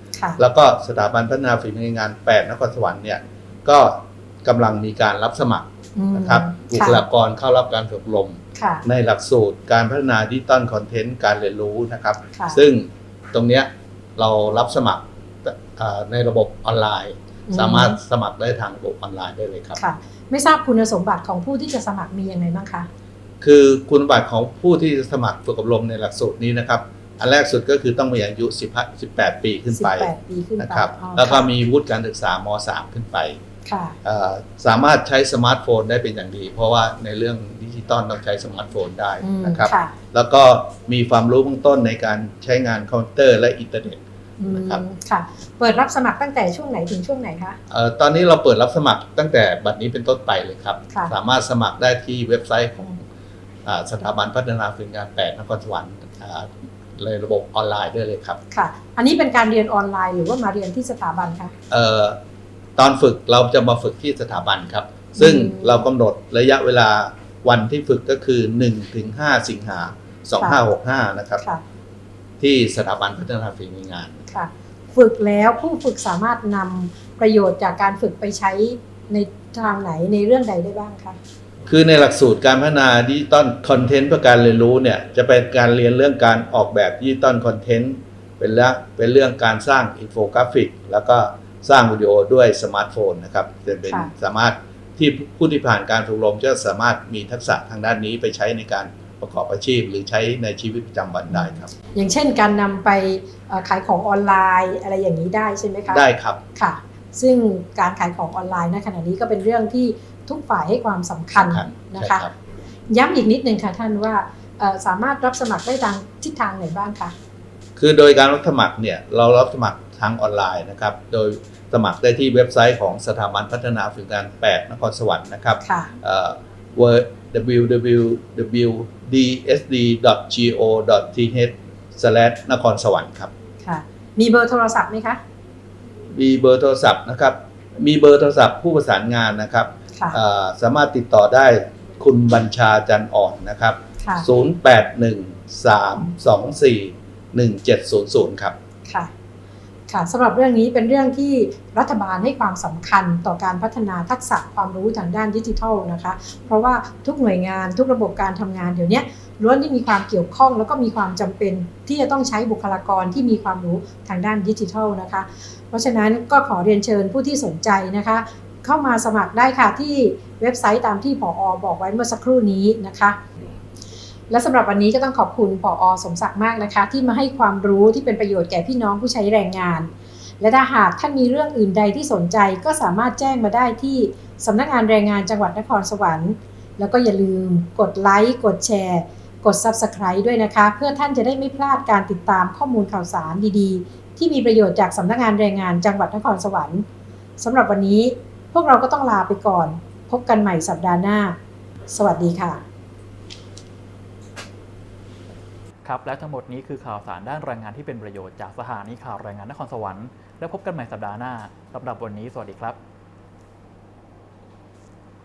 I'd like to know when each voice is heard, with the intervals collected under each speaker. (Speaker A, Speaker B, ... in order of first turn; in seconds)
Speaker A: 0.4-19.8, 23.4-33.4, 34.0-44.8, 47.7-53.0, 53.7-58.4, 61.7-62.2, 62.8-71.4, 72.4-74.3, 81.7-101.7, 105.9-106.4, 111.4-112.3, 117.8-133.3, 136.1-148.6
Speaker B: 6.0-7.0, 8.6-8.8, 12.4-12.6, 17.5-18.0, 19.8-22.9, 29.7-31.5, 33.7-34.0, 39.2-39.9, 44.4-47.6, 58.5-61.5, 65.2-65.9, 74.3-81.2, 101.3-106.0, 106.6-112.3, 112.9-117.1, 125.6-125.9, 133.6-135.2, 139.9-140.2, 144.0-144.3, 149.9-173.2, 174.3-196.8, 197.4-201.4, 201.9-202.6
Speaker C: 205.8-212.8